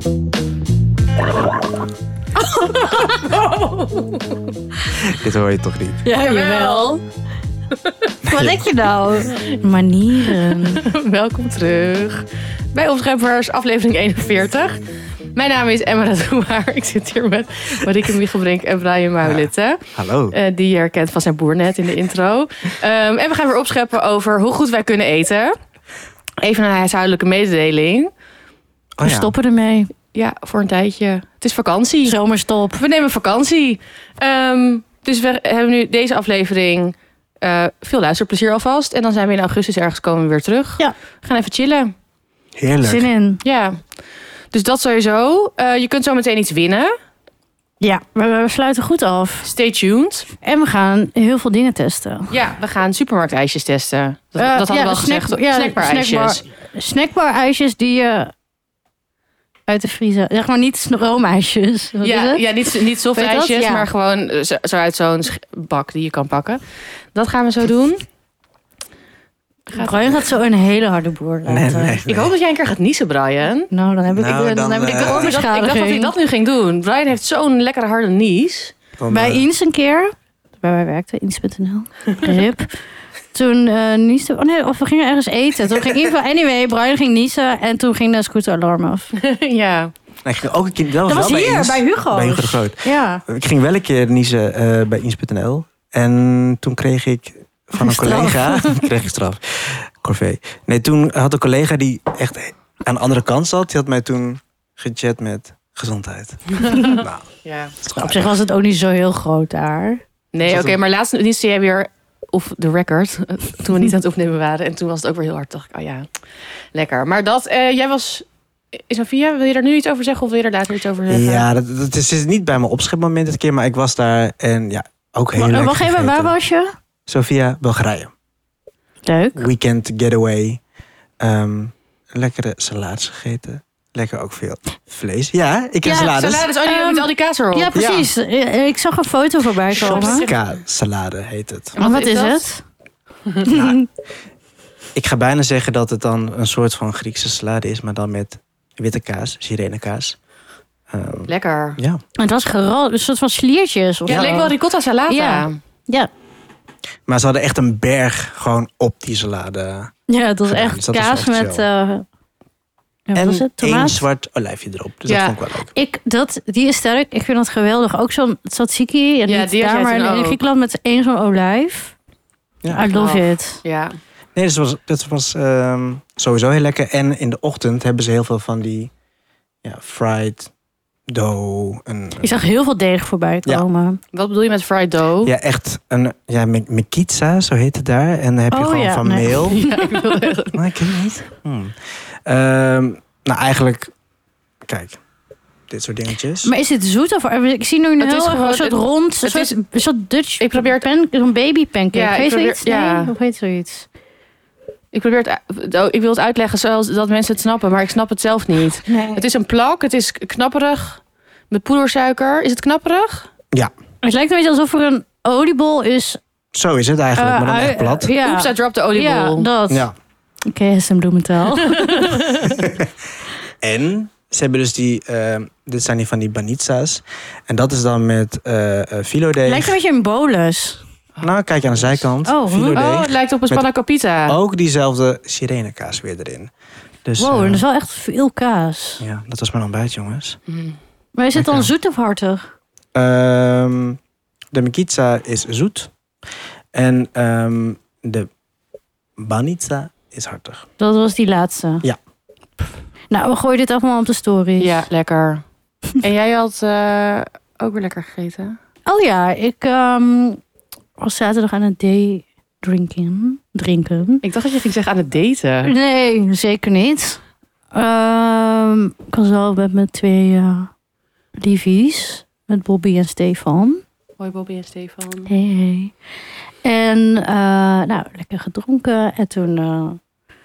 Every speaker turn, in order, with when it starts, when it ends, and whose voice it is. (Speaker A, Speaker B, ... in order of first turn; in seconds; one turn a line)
Speaker A: 2.4-3.3
Speaker B: 2.7-4.5
Speaker C: 4.9-6.0
Speaker A: 6.0-7.0
Speaker B: 6.2-7.0
Speaker B: 7.8-8.2
Speaker A: 8.2-10.9
Speaker C: 8.3-8.6
Speaker B: 10.3-14.8
Speaker B: 15.3-25.5
Speaker C: 19.2-20.4
Speaker B: 26.4-28.1
Speaker C: 29.0-29.3
Speaker A: 29.0-29.9
Speaker B: 30.1-32.2
Speaker A: 32.0-32.8
Speaker B: 32.8-41.9
Speaker C: 42.5-43.1
Speaker A: 42.8-43.4
Speaker B: 43.4-43.8
Speaker B: 44.5-46.9
Speaker A: 47.8-49.5
Speaker B: 49.4-50.3
Speaker A: 50.4-52.3
Speaker B: 52.3-56.4
Speaker A: 54.4-58.3
Speaker A: 59.7-62.4
Speaker B: 62.0-66.6
Speaker A: 63.1-63.9
Speaker B: 67.1-68.0
Speaker B: 69.7-70.2
Speaker A: 69.7-72.0
Speaker C: 71.5-72.3
Speaker B: 72.1-73.7
Speaker A: 73.7-76.1
Speaker C: 74.1-75.4
Speaker B: 74.8-78.8
Speaker C: 79.0-79.5
Speaker A: 79.1-82.7
Speaker A: 83.3-89.1
Speaker B: 89.2-89.9
Speaker C: 90.2-107.3
Speaker A: 91.0-93.2
Speaker A: 97.8-98.8
Speaker B: 106.6-107.7
Speaker C: 107.8-108.3
Speaker A: 108.0-110.0
Speaker B: 110.3-116.1
Speaker C: 110.5-110.8
Speaker B: 116.7-121.5
Speaker C: 121.1-126.3
Speaker A: 125.4-126.7
Speaker C: 127.1-128.1
Speaker A: 129.1-129.5
Speaker C: 129.3-130.6
Speaker C: 131.2-136.5
Speaker A: 135.8-140.2
Speaker B: 135.9-137.7
Speaker C: 137.7-138.1
Speaker B: 139.7-140.5
Speaker C: 139.9-141.7
Speaker B: 141.7-142.4
Speaker A: 141.8-142.6
Speaker C: 143.4-143.8
Speaker A: 143.4-143.8
Speaker C: 144.9-150.2
Speaker C: 150.9-152.0
Speaker B: 151.3-151.8
Speaker A: 152.2-154.5
Speaker B: 154.1-155.6
Speaker C: 154.1-154.3
Speaker A: 155.1-156.1
Speaker C: 157.1-159.9
Speaker A: 160.1-162.0
Speaker C: 160.4-161.6
Speaker A: 163.1-164.0
Speaker C: 163.1-165.7
Speaker B: 165.1-165.4
Speaker A: 165.7-171.9
Speaker B: 169.3-170.4
Speaker C: 172.6-172.9
Speaker A: 172.7-173.6
Speaker B: 172.9-173.9
Speaker C: 174.3-178.9
Speaker C: 179.6-180.5
Speaker C: 181.1-182.3
Speaker A: 182.2-184.0
Speaker B: 184.1-185.3
Speaker C: 185.2-189.6
Speaker A: 188.5-190.1
Speaker B: 189.5-190.7
Speaker C: 190.5-193.9
Speaker C: 194.7-195.0
Speaker C: 195.7-196.5
Speaker A: 196.4-203.8
Speaker B: 198.0-199.6
Speaker B: 200.4-200.8
Speaker B: 201.9-203.1
Speaker B: 204.9-213.3
Speaker A: 208.8-209.2
Speaker A: 214.0-216.2
Speaker C: 216.5-218.1
Speaker A: 217.2-219.9
Speaker B: 218.2-219.5
Speaker A: 220.4-222.6
Speaker B: 221.6-222.6
Speaker C: 222.6-222.9
Speaker C: 223.6-229.8
Speaker A: 229.4-230.8
Speaker B: 231.2-232.0
Speaker C: 231.2-233.6
Speaker A: 232.2-232.8
Speaker B: 232.7-234.3
Speaker C: 234.3-236.5
Speaker C: 237.0-237.6
Speaker A: 237.2-239.0
Speaker C: 239.0-240.4
Speaker B: 240.5-240.8
Speaker A: 241.2-242.4
Speaker C: 241.3-241.7
Speaker C: 242.9-244.0
Speaker C: 244.5-245.9
Speaker C: 246.7-248.3
Speaker C: 249.2-250.6
Speaker A: 250.8-251.8
Speaker A: 253.1-254.8
Speaker B: 254.6-255.4
Speaker B: 256.0-258.6
Speaker A: 258.9-260.4
Speaker A: 261.0-264.2
Speaker B: 264.2-265.7
Speaker A: 265.6-267.2
Speaker A: 267.7-270.7
Speaker A: 271.4-273.8
Speaker B: 274.2-275.3
Speaker A: 275.3-275.9
Speaker A: 276.6-280.0